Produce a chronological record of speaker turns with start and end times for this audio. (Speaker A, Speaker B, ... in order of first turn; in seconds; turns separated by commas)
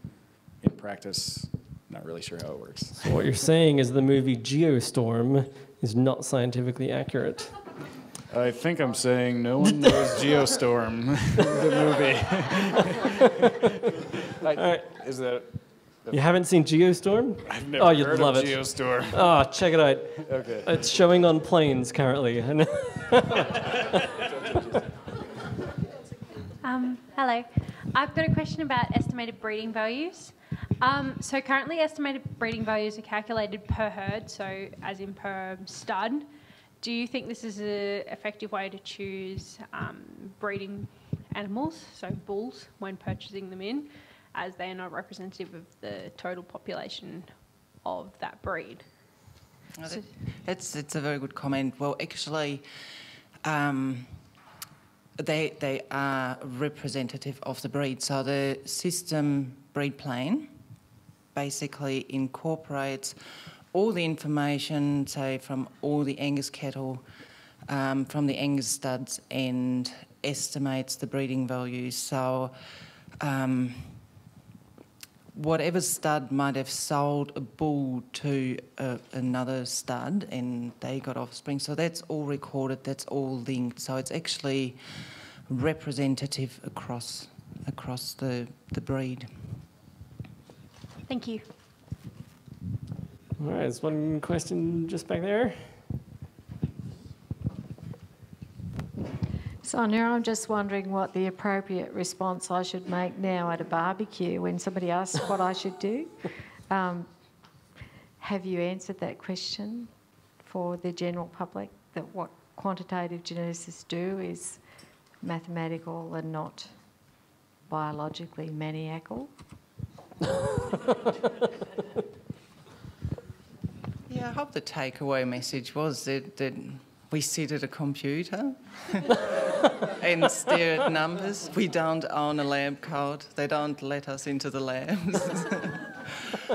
Speaker A: 0.6-3.1, Speaker B: 3.0-7.5, Speaker A: 8.3-13.0, Speaker B: 9.7-10.1, Speaker A: 14.3-15.5, Speaker B: 14.6-14.9, Speaker A: 16.0-16.3, Speaker B: 16.1-23.8, Speaker A: 17.5-19.4, Speaker A: 20.2-20.7, Speaker C: 26.6-36.3, Speaker C: 36.8-48.9, Speaker D: 49.8-52.6, Speaker D: 53.4-54.1, Speaker D: 55.2-60.5, Speaker D: 61.3-63.2, Speaker D: 63.7-67.0, Speaker D: 67.7-72.5, Speaker D: 73.2-74.0, Speaker D: 75.3-84.8, Speaker D: 85.5-89.3, Speaker C: 91.1-91.5, Speaker B: 93.4-95.8, Speaker E: 99.6-107.1, Speaker E: 108.2-114.6, Speaker E: 115.2-116.9, Speaker E: 117.7-119.3, Speaker D: 124.1-129.3, Speaker D: 129.8-136.2